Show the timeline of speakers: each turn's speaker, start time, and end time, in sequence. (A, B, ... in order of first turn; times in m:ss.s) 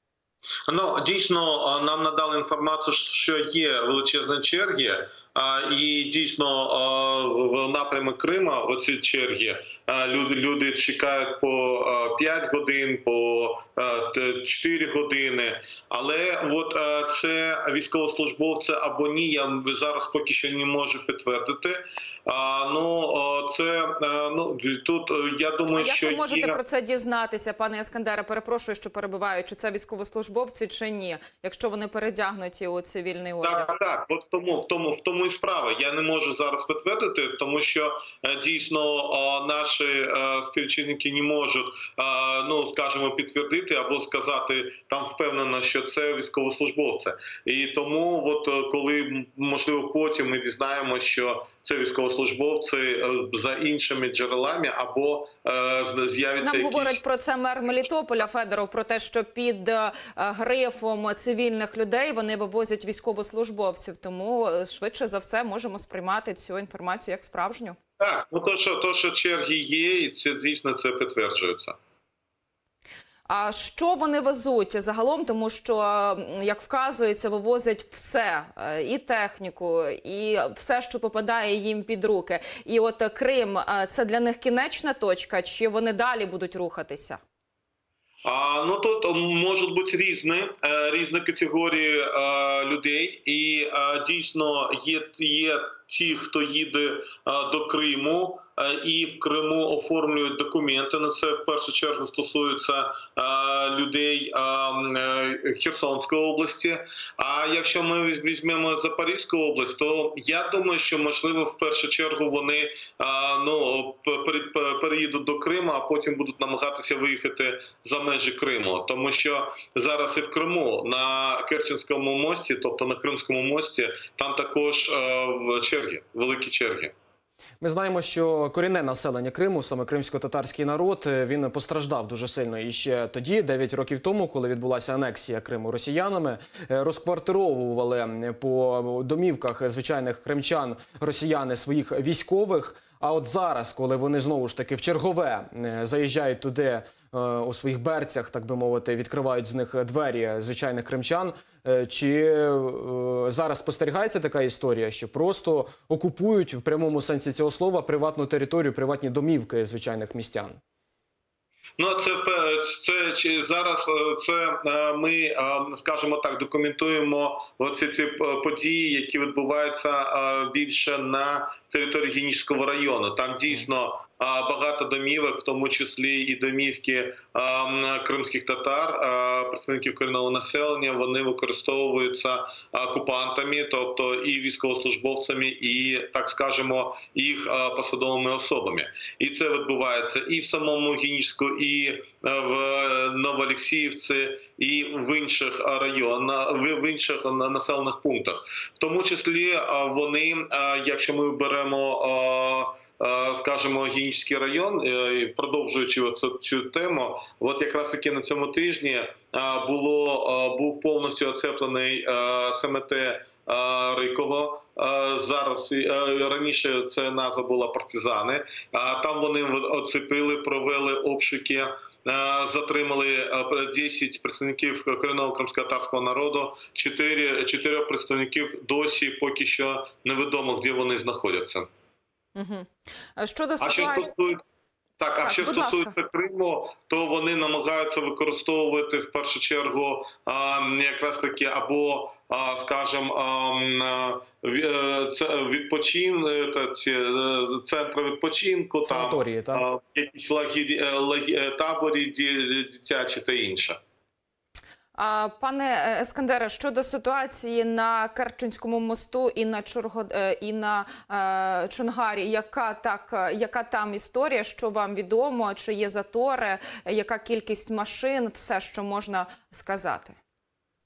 0:00.7-0:26.6 A
0:25.7-0:33.7 B
0:33.4-0:57.0 A
0:56.4-1:07.8 B
1:08.0-1:11.8 A
1:13.3-1:27.2 B
1:28.2-2:06.9 A
2:07.6-2:40.6 C
2:41.8-3:51.7 A
3:52.4-3:54.1 B
3:53.6-3:54.4 A
3:55.0-4:13.8 A
3:55.2-3:55.9 B
4:08.8-4:09.6 C
4:14.9-4:30.2 B